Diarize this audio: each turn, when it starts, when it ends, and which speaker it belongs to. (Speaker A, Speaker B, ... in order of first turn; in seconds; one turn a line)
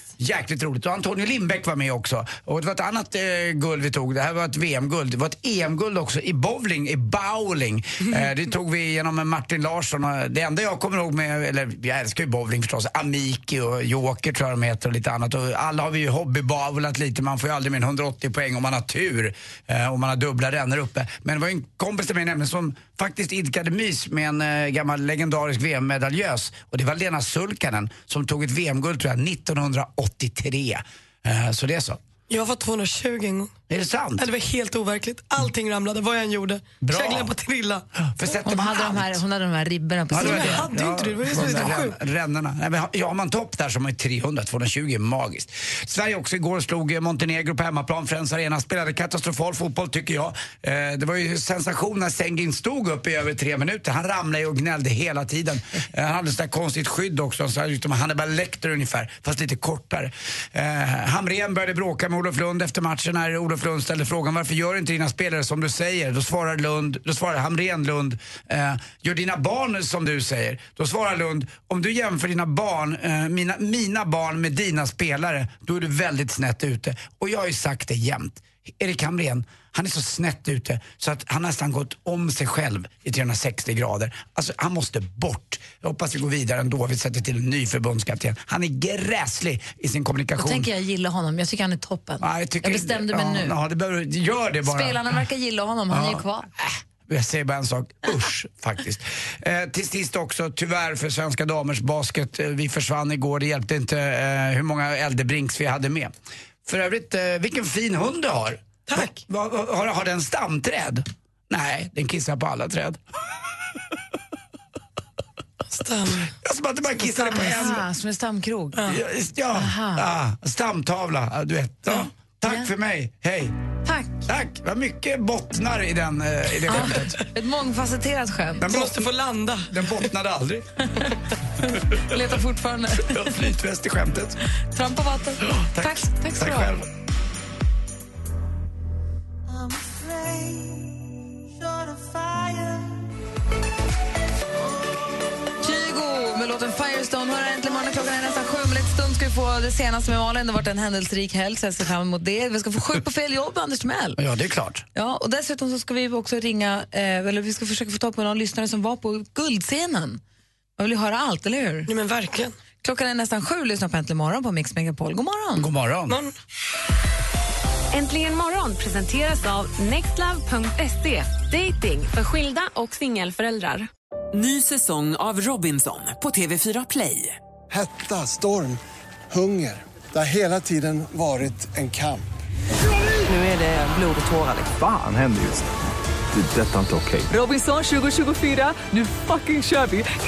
Speaker A: 0.2-32.0
Speaker B: 32.3-33.5
Speaker A: 33.7-34.3
Speaker B: 34.2-37.9
Speaker A: 36.8-37.4
Speaker A: 38.0-39.2
Speaker C: 38.3-40.7
Speaker A: 40.1-90.7
Speaker B: 40.1-42.0
Speaker C: 90.4-93.6
Speaker A: 92.2-95.1
Speaker C: 94.6-96.5
Speaker A: 95.9-106.1
Speaker A: 106.7-113.0
Speaker B: 108.9-109.2
Speaker B: 115.8-116.3
Speaker A: 116.4-117.8
Speaker C: 117.0-118.8
Speaker A: 118.8-123.6
Speaker C: 119.5-120.0
Speaker C: 122.5-122.7
Speaker C: 123.8-124.3
Speaker A: 124.3-127.2
Speaker C: 126.7-128.7
Speaker A: 128.6-129.1
Speaker B: 128.7-129.7
Speaker A: 129.7-130.7
Speaker C: 131.9-133.5
Speaker A: 133.0-134.4
Speaker C: 134.7-136.7
Speaker A: 135.4-136.9
Speaker C: 145.6-154.2
Speaker A: 154.2-154.8
Speaker C: 154.9-160.2
Speaker C: 160.8-161.9
Speaker B: 161.9-162.6
Speaker C: 162.8-165.7
Speaker A: 165.6-166.2
Speaker B: 166.1-166.3
Speaker D: 167.9-173.9
Speaker E: 174.3-177.4
Speaker F: 177.7-182.3
Speaker G: 184.8-185.8
Speaker G: 186.3-187.4